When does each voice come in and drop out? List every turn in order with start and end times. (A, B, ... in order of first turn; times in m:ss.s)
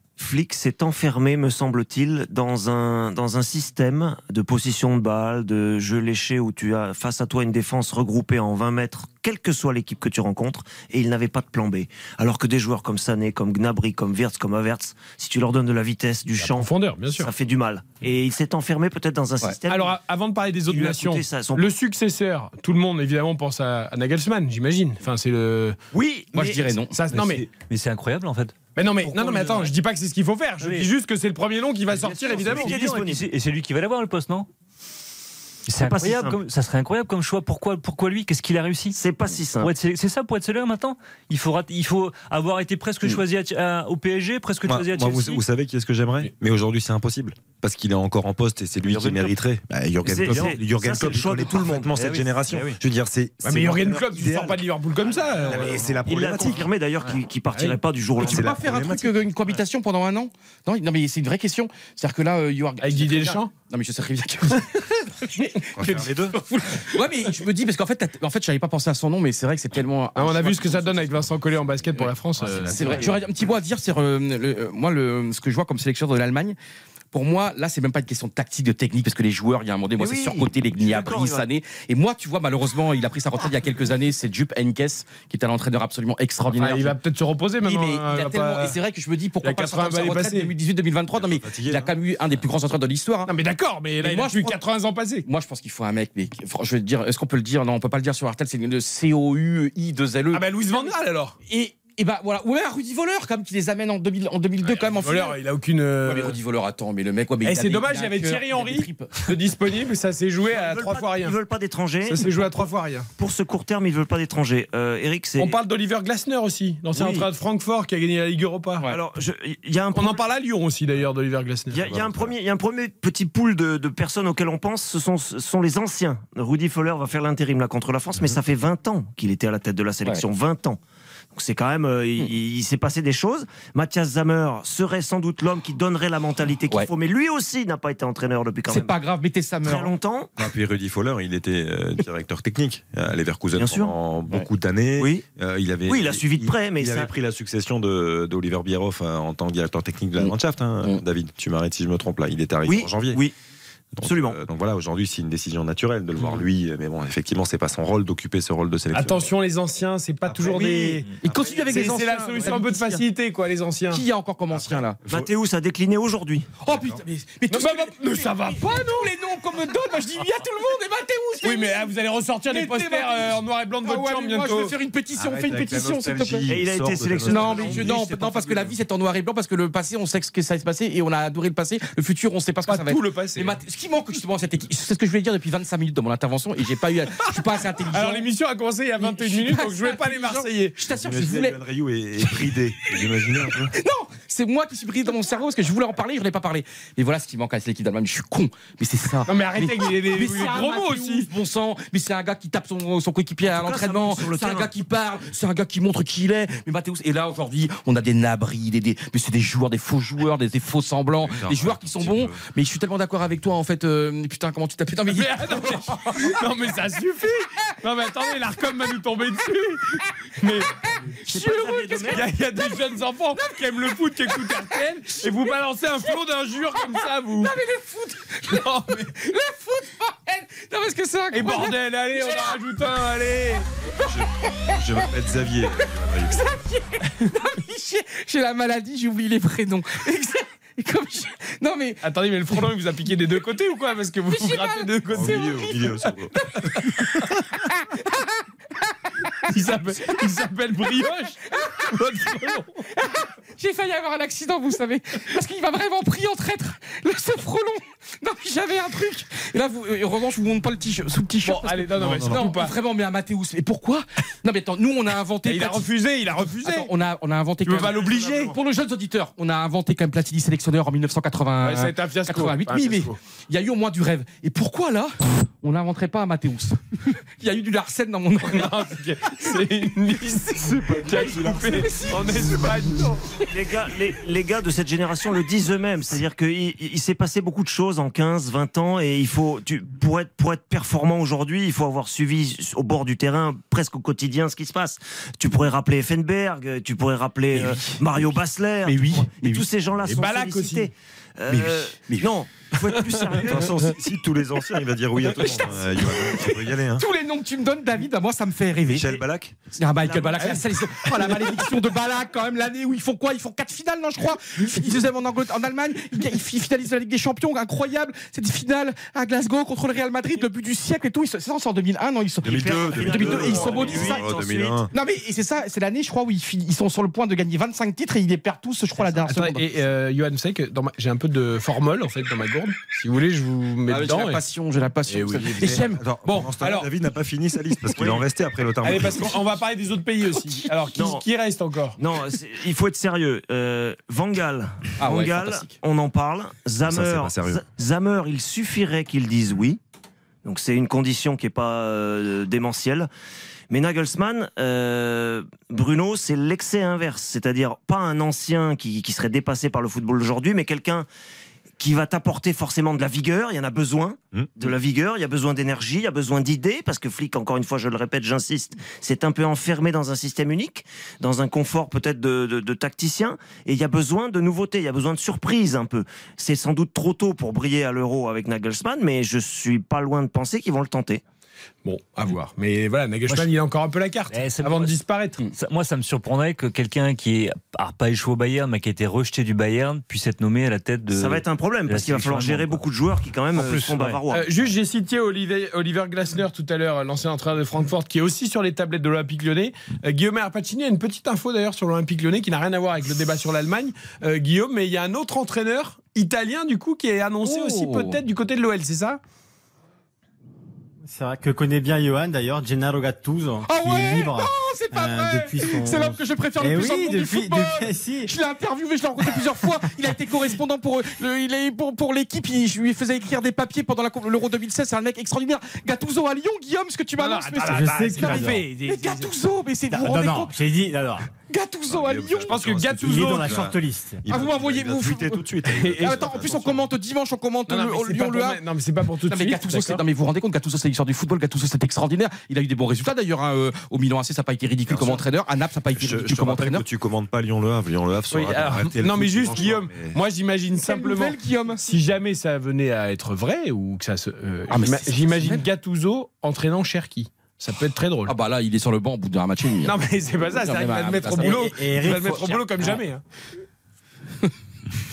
0:00.2-0:20.0 A
0:16.4-0:17.3 B
0:19.7-0:25.8 B
0:20.7-0:21.7 A
0:25.9-0:26.6 A
0:26.0-0:27.0 C
0:26.9-0:27.5 B
0:27.1-0:29.7 D
0:28.8-0:32.8 B
0:30.6-0:30.9 D
0:32.0-0:34.5 D
0:32.4-0:33.3 A
0:35.7-0:39.0 D
0:35.8-0:36.4 A
0:38.9-0:39.7 A
0:39.6-0:45.4 D
0:44.7-0:54.7 E
0:48.9-0:49.3 D
0:50.0-0:52.1 A
0:50.2-0:50.5 D
0:52.0-0:52.6 D
0:53.4-0:56.0 B
0:55.4-0:56.7 E
0:56.0-0:58.5 A
0:58.2-0:59.2 E
0:58.2-1:11.2 C
1:02.8-1:03.5 B
1:05.8-1:06.4 E
1:10.2-1:13.1 B
1:12.0-1:16.6 C
1:17.1-1:27.0 C
1:20.0-1:21.4 A
1:26.6-1:28.8 B
1:27.6-1:33.3 C
1:29.4-1:30.5 B
1:31.2-1:31.9 E
1:33.3-1:35.2 B
1:34.0-1:34.6 C
1:35.3-1:40.9 C
1:40.3-1:41.4 B
1:41.5-1:45.4 C
1:44.6-1:46.4 B
1:46.0-1:49.3 C
1:47.4-1:51.4 B
1:50.5-1:52.4 A
1:52.1-1:53.1 B
1:53.2-1:55.6 A
1:55.4-1:58.9 B
1:58.9-2:00.2 A
1:59.9-2:01.8 B
2:01.7-2:10.8 A
2:01.7-2:02.3 E
2:11.3-2:19.0 A
2:18.7-2:19.9 C
2:19.6-2:20.3 A
2:20.4-2:33.2 E
2:23.6-2:23.9 A
2:25.0-2:25.2 A
2:25.9-2:27.1 A
2:30.2-2:31.0 C
2:32.6-2:33.3 A
2:34.0-2:39.3 E
2:34.0-2:34.4 A
2:38.9-2:41.1 B
2:40.3-2:40.6 E
2:40.5-2:43.0 C
2:41.2-2:41.6 E
2:41.7-2:44.0 B
2:43.9-2:45.0 C
2:45.1-2:46.5 A
2:46.6-2:51.9 C
2:46.7-2:47.0 E
2:47.5-2:49.1 B
2:51.4-2:54.8 B
2:52.5-2:56.5 C
2:55.2-2:58.8 E
2:56.5-2:58.0 A
2:57.2-3:08.3 C
3:02.7-3:03.6 B
3:07.9-3:10.8 B
3:09.0-3:11.6 C
3:11.0-3:13.8 E
3:12.2-3:36.4 C
3:19.3-3:21.3 B
3:23.4-3:24.7 A
3:31.2-3:32.4 E
3:35.1-3:40.9 B
3:40.8-3:42.8 C
3:41.3-3:42.2 A
3:41.4-3:47.5 B
3:44.3-3:45.5 C
3:47.4-3:52.6 C
3:48.5-3:49.1 B
3:51.3-3:53.6 B
3:54.0-3:56.5 E
3:54.1-3:55.0 C
3:55.8-4:02.0 C
4:02.0-4:06.1 B
4:04.3-4:06.7 C
4:05.1-4:06.4 E
4:06.8-4:07.4 B
4:09.5-4:12.8 B
4:13.0-4:39.5 C
4:21.4-4:22.7 B
4:25.4-4:26.9 B
4:27.6-4:28.6 B
4:31.6-4:33.2 B
4:38.5-4:43.4 B
4:40.7-4:42.0 E
4:41.1-4:42.6 C
4:43.4-5:03.8 A
4:57.5-4:59.7 C
5:00.0-5:00.9 B
5:01.5-5:02.3 C
5:03.4-5:07.0 E
5:05.2-5:09.2 C
5:08.9-5:09.6 E
5:09.8-5:24.3 C
5:10.0-5:11.9 B
5:22.4-5:24.9 E
5:22.5-5:24.4 A
5:23.0-5:24.7 B
5:24.9-5:29.6 C
5:29.0-5:34.4 B
5:33.9-5:36.0 C
5:35.1-5:36.9 B
5:35.6-5:39.3 E
5:38.8-5:42.0 B
5:41.0-5:41.2 A
5:42.0-5:49.8 A
5:45.0-5:45.8 C
5:46.9-5:47.6 E
5:50.4-5:53.1 A
5:53.7-6:01.1 A
6:01.8-6:21.2 A
6:21.8-6:25.4 B
6:24.3-6:25.0 D
6:25.6-6:32.9 D
6:31.1-6:34.5 A
6:33.5-6:34.2 D
6:34.3-6:49.2 B
6:47.4-6:48.2 C
6:51.1-6:58.3 F
6:53.7-7:10.5 C
7:07.2-7:09.3 B
7:07.6-7:08.7 F
7:09.9-7:11.3 F
7:11.5-7:12.6 C
7:11.9-7:16.8 E
7:12.4-7:13.7 B
7:13.0-7:14.2 F
7:14.3-7:18.6 C
7:15.7-7:16.7 B
7:17.7-7:20.0 B
7:19.3-7:26.8 C
7:24.9-7:25.3 E
7:25.9-7:30.2 E
7:28.3-7:38.3 B
7:30.8-7:31.9 C
7:34.7-7:35.6 C
7:38.3-7:40.0 C
7:39.8-7:43.2 B
7:40.5-7:43.0 C
7:41.4-7:42.6 F